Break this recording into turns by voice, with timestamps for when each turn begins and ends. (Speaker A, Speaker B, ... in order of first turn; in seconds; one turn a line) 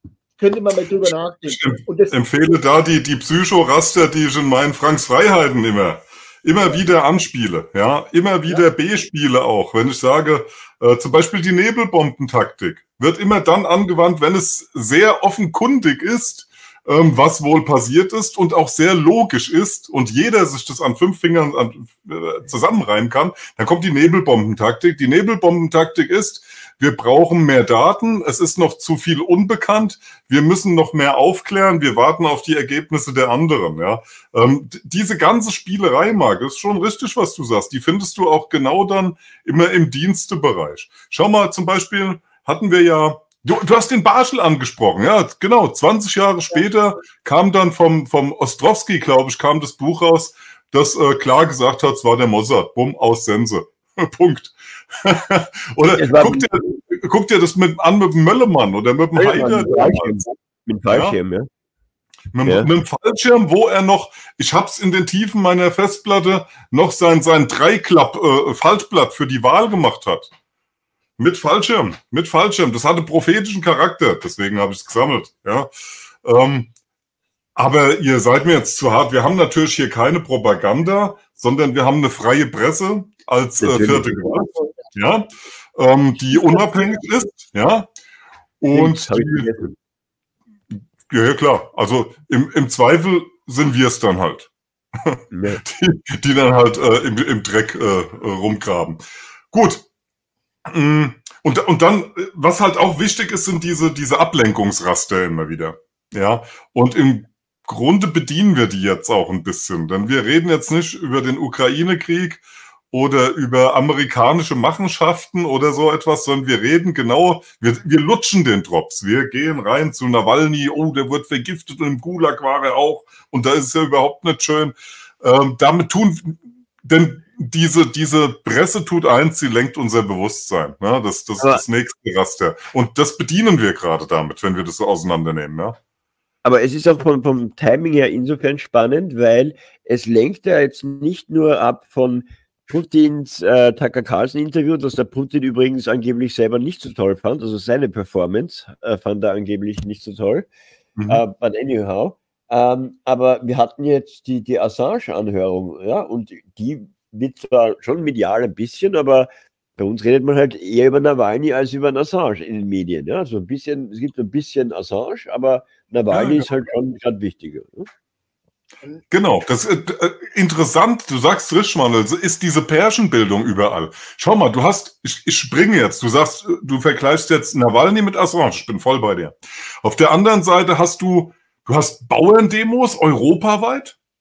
Speaker A: 0.4-2.2
Speaker B: 1.5-60.2
Speaker C: 56.0-56.5
Speaker C: 59.1-61.5
Speaker B: 60.9-61.2
Speaker B: 62.3-70.3
Speaker C: 62.4-62.7
Speaker B: 71.2-75.7
Speaker B: 76.2-76.7
Speaker B: 77.6-87.9
Speaker C: 83.6-84.4
Speaker A: 86.3-86.9
Speaker B: 88.6-89.7
Speaker C: 88.7-89.7
Speaker B: 91.1-99.0
Speaker C: 95.3-95.6
Speaker B: 99.5-99.8
Speaker B: 100.7-135.8
Speaker C: 136.4-150.5
Speaker C: 151.1-167.9
Speaker B: 166.1-166.5
Speaker B: 169.1-184.0